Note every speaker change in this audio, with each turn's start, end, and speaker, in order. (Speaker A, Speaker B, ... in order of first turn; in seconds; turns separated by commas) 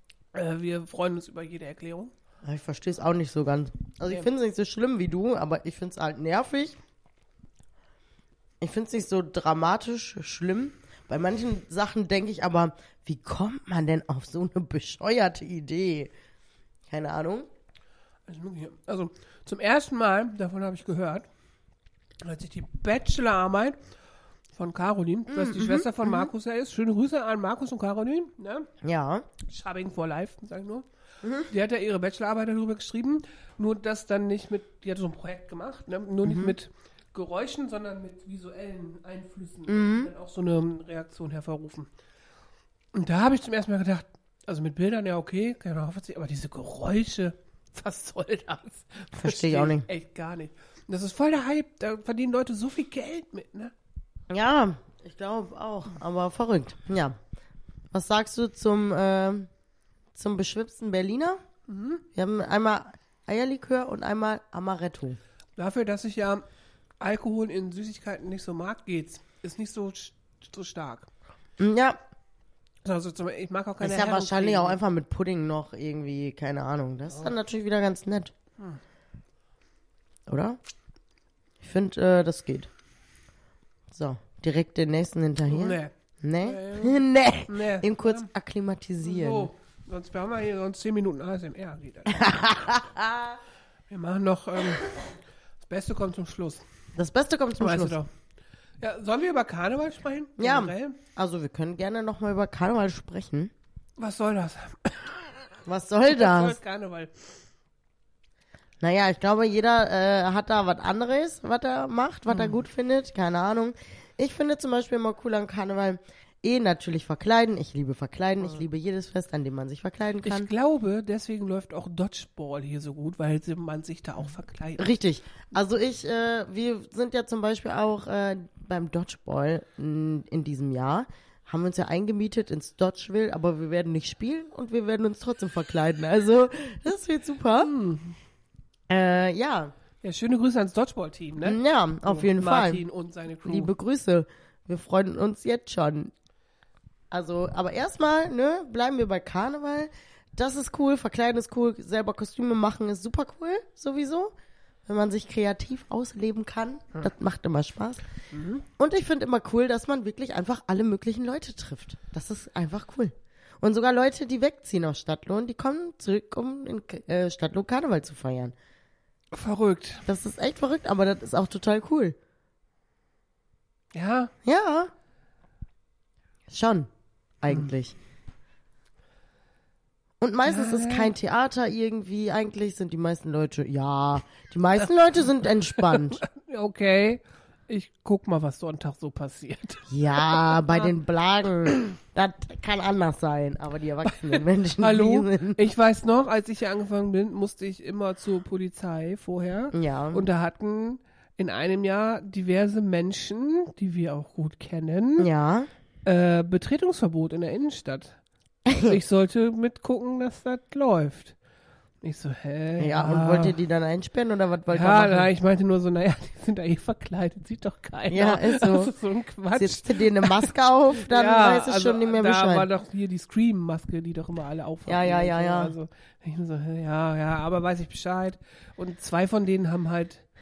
Speaker A: 0.3-2.1, Speaker B: 2.4-6.8, Speaker B: 8.6-16.1, Speaker B: 16.9-17.5, Speaker A: 18.3-21.3, Speaker A: 22.2-23.8, Speaker A: 24.5-28.7, Speaker B: 25.3-26.3, Speaker B: 28.8-29.3, Speaker A: 29.4-30.9, Speaker B: 31.2-31.5, Speaker A: 31.4-41.9, Speaker B: 36.2-36.5, Speaker B: 39.7-40.1, Speaker A: 42.9-53.7, Speaker B: 49.2-49.9, Speaker B: 54.3-57.2, Speaker B: 57.9-59.5, Speaker B: 60.1-61.4, Speaker A: 61.7-62.0, Speaker B: 62.1-65.2, Speaker A: 65.6-66.4, Speaker A: 67.0-71.1, Speaker B: 71.6-72.0, Speaker A: 72.8-74.8, Speaker B: 73.8-78.3, Speaker B: 80.3-80.6, Speaker B: 81.6-82.7, Speaker B: 83.9-89.5, Speaker A: 85.5-88.3, Speaker A: 89.0-92.3, Speaker B: 92.1-93.4, Speaker A: 93.9-95.0, Speaker A: 95.6-96.6, Speaker B: 96.9-98.0, Speaker A: 97.6-98.1, Speaker A: 98.8-101.0, Speaker B: 100.4-103.5, Speaker A: 104.0-105.4, Speaker B: 105.6-106.6, Speaker A: 106.1-107.3, Speaker B: 108.8-120.5, Speaker A: 112.3-112.6, Speaker A: 120.2-124.9, Speaker B: 124.8-137.7, Speaker A: 137.6-138.2, Speaker B: 138.9-139.7, Speaker A: 140.0-143.7, Speaker B: 141.4-142.8, Speaker B: 143.4-146.1, Speaker B: 147.1-154.3, Speaker B: 154.8-158.0, Speaker A: 158.3-158.7, Speaker B: 158.8-168.5, Speaker A: 169.3-170.1, Speaker B: 170.1-172.2, Speaker A: 173.9-174.3, Speaker B: 174.4-174.9, Speaker B: 176.5-176.9, Speaker B: 177.4-177.9, Speaker B: 180.2-186.2, Speaker A: 180.4-181.1, Speaker A: 185.8-190.9, Speaker B: 189.9-195.6, Speaker A: 194.3-205.3, Speaker B: 199.7-200.2, Speaker B: 205.2-205.7, Speaker A: 206.0-208.2, Speaker B: 208.7-209.0, Speaker A: 208.8-211.3, Speaker A: 212.0-213.6, Speaker B: 212.8-215.3, Speaker A: 214.7-230.2, Speaker B: 218.1-218.9, Speaker B: 219.5-222.7, Speaker B: 224.9-225.7